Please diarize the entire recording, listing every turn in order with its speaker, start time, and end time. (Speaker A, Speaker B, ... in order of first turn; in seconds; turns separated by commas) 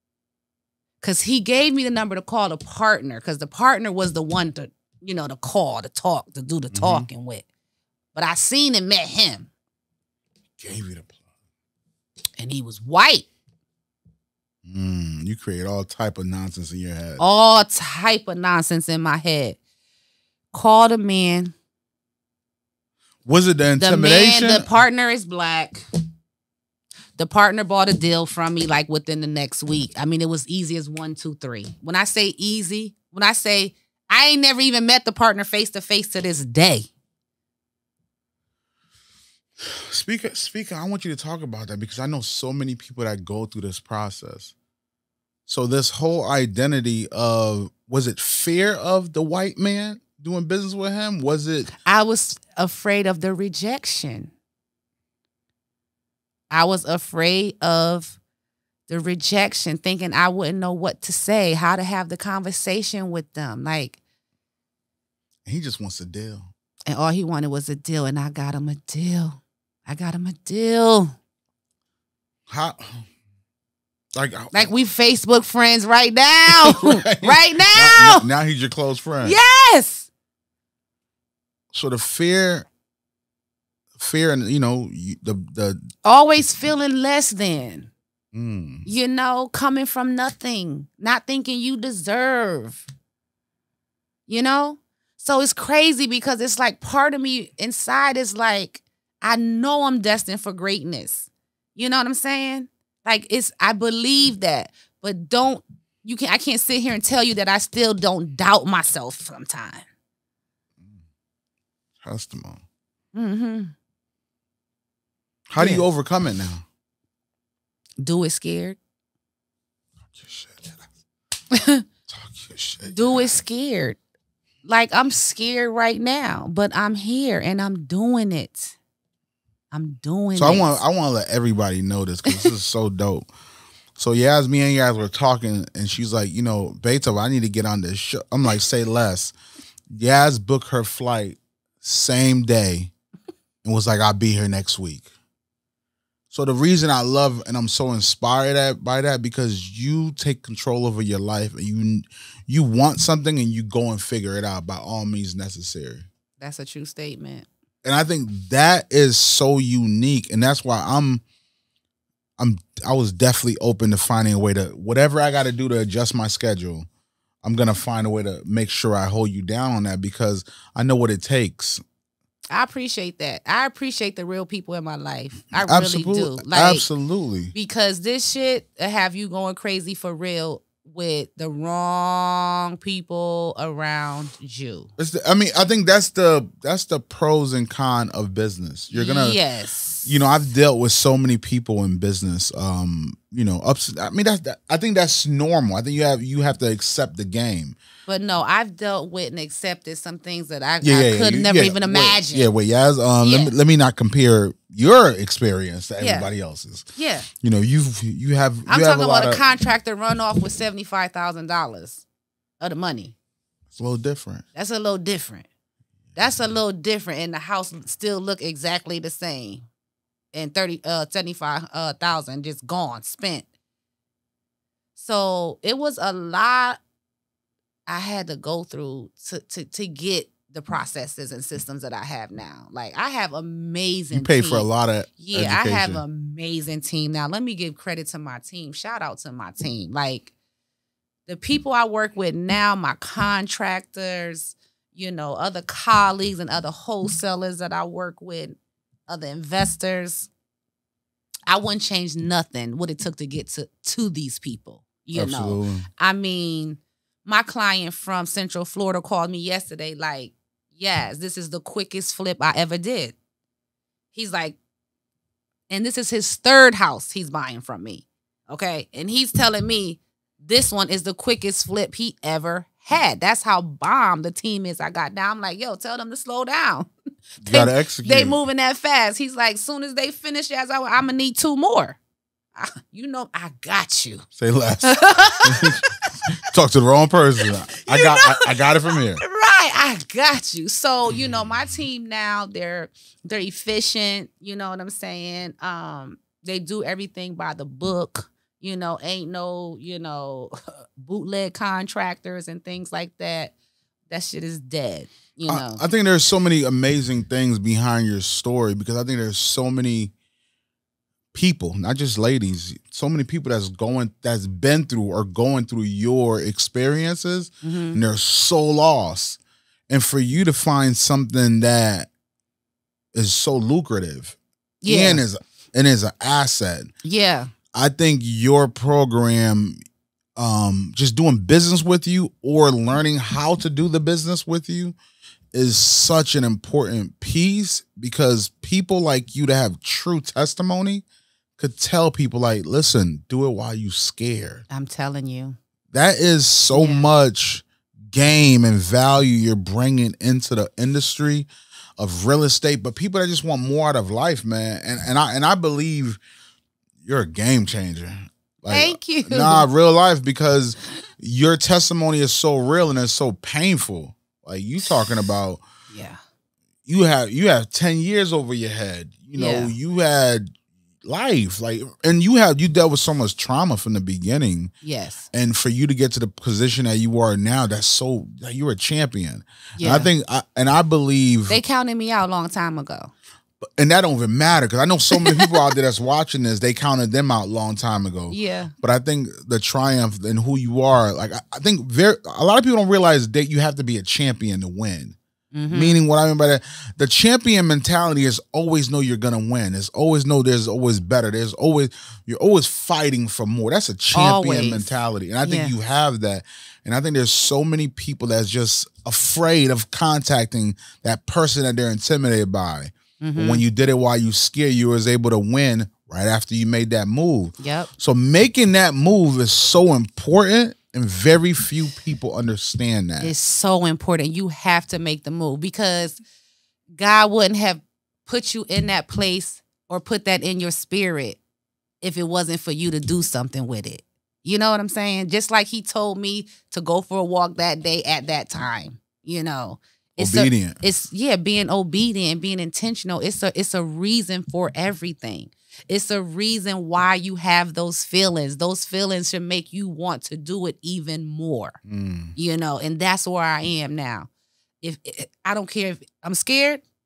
Speaker A: 1.0-7.5, Speaker B: 6.7-7.1, Speaker A: 8.1-9.5, Speaker B: 10.6-11.2, Speaker A: 12.4-13.3, Speaker B: 14.7-17.2, Speaker A: 17.2-19.6, Speaker A: 20.5-21.5, Speaker B: 23.2-24.7, Speaker A: 23.8-25.8, Speaker A: 27.2-36.9, Speaker B: 39.6-44.5, Speaker B: 45.5-51.7, Speaker A: 51.9-54.3, Speaker A: 56.5-58.2, Speaker A: 58.9-64.0, Speaker B: 65.5-66.5, Speaker A: 66.9-71.2, Speaker B: 72.5-73.1, Speaker B: 74.2-74.7, Speaker A: 74.5-78.3, Speaker B: 76.5-79.4, Speaker A: 79.2-80.1, Speaker B: 81.7-82.7, Speaker B: 84.0-85.9, Speaker A: 86.0-87.9, Speaker B: 88.3-88.9, Speaker A: 88.9-92.8, Speaker A: 94.3-109.9, Speaker B: 112.0-112.6, Speaker A: 113.1-113.7, Speaker B: 115.5-116.6, Speaker A: 115.6-115.9, Speaker A: 118.0-118.8, Speaker B: 120.1-120.8, Speaker A: 121.5-121.8, Speaker B: 122.1-123.4, Speaker A: 122.8-124.0, Speaker A: 124.7-128.8, Speaker A: 129.7-130.8, Speaker B: 130.4-133.3, Speaker B: 134.0-139.3, Speaker B: 139.9-142.9, Speaker B: 143.6-145.1, Speaker B: 146.3-156.1, Speaker A: 156.4-157.5, Speaker B: 157.8-161.2, Speaker B: 162.4-166.9, Speaker B: 167.4-171.8, Speaker A: 172.5-176.9, Speaker B: 175.5-177.5, Speaker A: 177.5-184.9, Speaker B: 185.0-189.4, Speaker A: 188.9-190.1, Speaker B: 190.1-197.8, Speaker A: 198.1-202.5, Speaker B: 200.8-209.4, Speaker A: 203.2-203.5, Speaker A: 206.0-206.3, Speaker A: 207.0-207.3, Speaker A: 208.7-212.0, Speaker A: 212.6-213.1, Speaker B: 213.7-214.4, Speaker A: 214.5-215.5, Speaker A: 216.2-219.7, Speaker A: 220.3-223.5, Speaker A: 225.0-226.8, Speaker A: 227.9-234.7, Speaker B: 234.1-236.0, Speaker A: 235.2-240.3, Speaker A: 241.3-250.3, Speaker A: 251.5-263.2, Speaker B: 255.1-255.9, Speaker A: 264.1-264.6, Speaker A: 265.7-276.9, Speaker B: 277.4-278.4, Speaker A: 277.5-282.0, Speaker A: 282.6-284.3, Speaker B: 284.4-285.8, Speaker A: 284.8-286.1, Speaker B: 286.4-289.2, Speaker A: 287.8-303.5, Speaker A: 304.1-305.8, Speaker B: 305.5-310.1, Speaker B: 311.3-322.1, Speaker A: 317.6-318.0, Speaker B: 323.1-326.9, Speaker A: 324.8-325.2, Speaker A: 327.0-327.5, Speaker B: 327.7-329.8, Speaker B: 330.4-335.0, Speaker B: 335.5-341.0, Speaker B: 341.6-344.6, Speaker A: 344.7-345.6, Speaker B: 345.9-356.2, Speaker A: 346.7-347.1, Speaker B: 357.0-365.6, Speaker A: 358.7-359.7, Speaker A: 365.9-366.2, Speaker B: 366.9-370.5, Speaker A: 369.4-369.7, Speaker B: 371.0-374.7, Speaker A: 374.8-375.2, Speaker B: 375.3-381.6, Speaker A: 379.8-380.1, Speaker A: 381.5-383.1, Speaker B: 383.6-395.2, Speaker A: 385.1-385.7, Speaker A: 388.3-388.7, Speaker A: 395.5-396.0, Speaker B: 395.7-423.3, Speaker A: 404.1-404.9, Speaker A: 405.4-405.8, Speaker A: 413.2-413.6, Speaker A: 417.6-417.9, Speaker A: 423.2-426.2, Speaker A: 426.9-431.4, Speaker A: 432.0-451.8, Speaker B: 440.2-440.8, Speaker B: 451.9-452.4, Speaker A: 452.4-454.3, Speaker A: 454.8-456.8